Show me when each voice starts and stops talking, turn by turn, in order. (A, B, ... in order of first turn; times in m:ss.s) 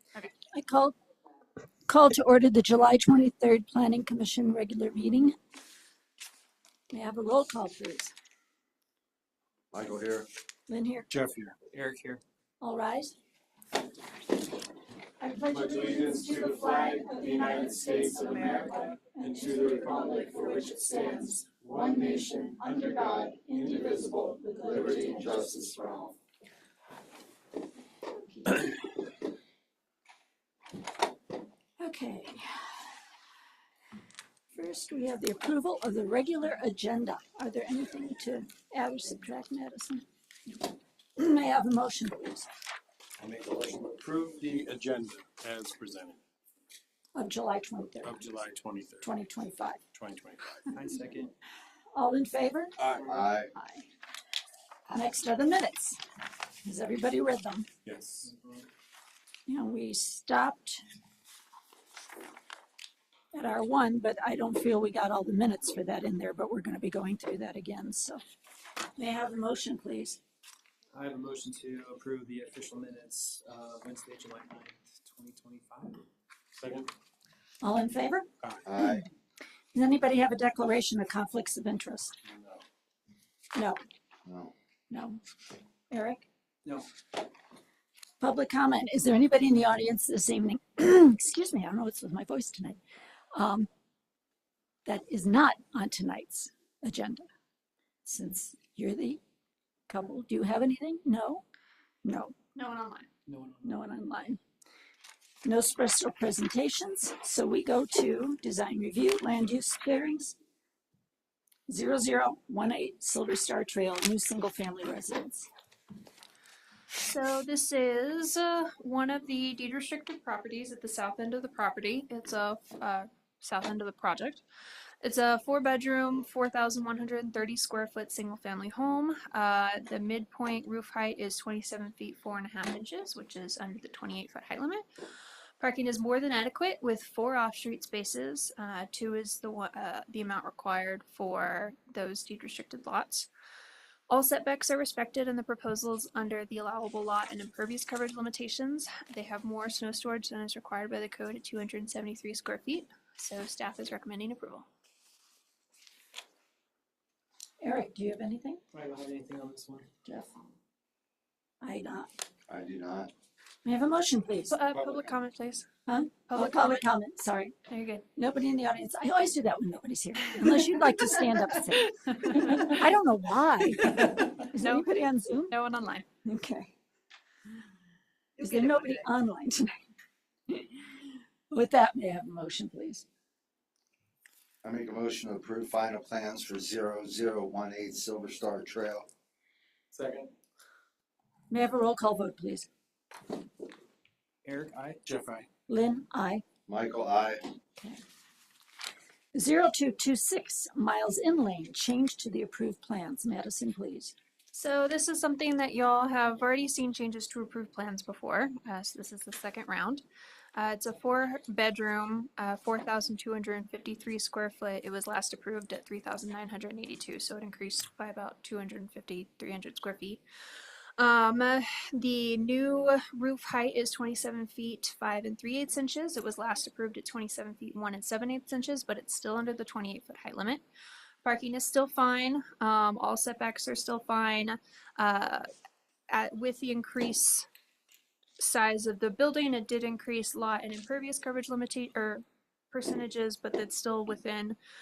0:00.5-0:01.0 A
0:01.9-0:05.4 A
0:06.9-0:08.1 A
0:09.7-0:10.3 B
0:10.7-0:11.1 A
0:11.1-0:11.6 C
0:11.6-0:12.2 D
0:12.6-0:13.1 A
0:15.2-0:26.2 A
0:15.5-0:18.2 C
0:19.3-0:20.1 C
0:21.6-0:24.0 C
0:24.7-0:25.6 B
0:28.1-0:28.8 A
0:31.8-0:32.7 A
0:34.5-0:40.0 A
0:41.2-0:42.5 A
0:43.2-0:46.2 C
0:47.2-0:48.4 A
0:48.0-0:49.1 C
0:49.0-0:49.8 A
0:49.9-0:50.7 C
0:50.7-0:51.3 D
0:52.0-0:52.8 A
0:52.8-0:53.1 C
0:53.0-0:53.5 B
0:53.5-0:53.9 A
0:54.9-0:56.0 A
0:56.6-0:57.7 A
0:57.8-0:58.3 C
0:58.2-0:58.7 D
0:59.5-1:00.8 A
1:03.3-1:08.2 A
1:09.0-1:10.2 A
1:10.9-1:16.0 D
1:16.6-1:16.9 C
1:17.6-1:19.1 A
1:18.6-1:19.0 B
1:19.7-1:22.1 A
1:22.2-1:22.6 C
1:23.5-1:23.8 A
1:24.2-1:24.5 B
1:24.9-1:25.2 A
1:25.9-1:26.3 A
1:28.2-1:32.8 A
1:33.3-1:33.7 A
1:34.8-1:37.3 A
1:38.0-1:39.2 A
1:39.9-1:41.4 A
1:42.0-1:42.4 A
1:42.6-1:43.1 E
1:43.3-1:43.7 D
1:43.6-1:44.4 A
1:45.4-1:50.4 A
1:51.7-1:55.5 A
1:57.0-2:04.4 E
2:05.0-2:14.8 E
2:15.6-2:23.3 E
2:24.1-2:34.7 E
2:37.6-2:38.6 A
2:38.7-2:39.9 D
2:40.0-2:40.3 A
2:41.6-2:42.1 A
2:42.5-2:43.1 B
2:43.6-2:44.5 A
2:44.5-2:45.7 E
2:45.9-2:47.6 A
2:46.3-2:46.8 E
2:47.7-2:48.1 E
2:48.2-2:55.5 A
2:52.1-2:52.6 E
2:54.5-2:56.1 E
2:56.2-2:56.7 A
2:58.4-2:59.8 A
3:00.5-3:03.1 A
3:04.6-3:09.1 B
3:09.9-3:10.3 C
3:11.5-3:12.7 A
3:14.4-3:15.0 D
3:15.0-3:15.5 C
3:15.7-3:16.4 A
3:16.7-3:17.4 B
3:19.3-3:24.2 A
3:24.5-3:30.0 E
3:30.6-3:50.6 E
3:51.2-3:55.5 E
3:56.1-3:57.5 E
3:58.4-4:04.6 E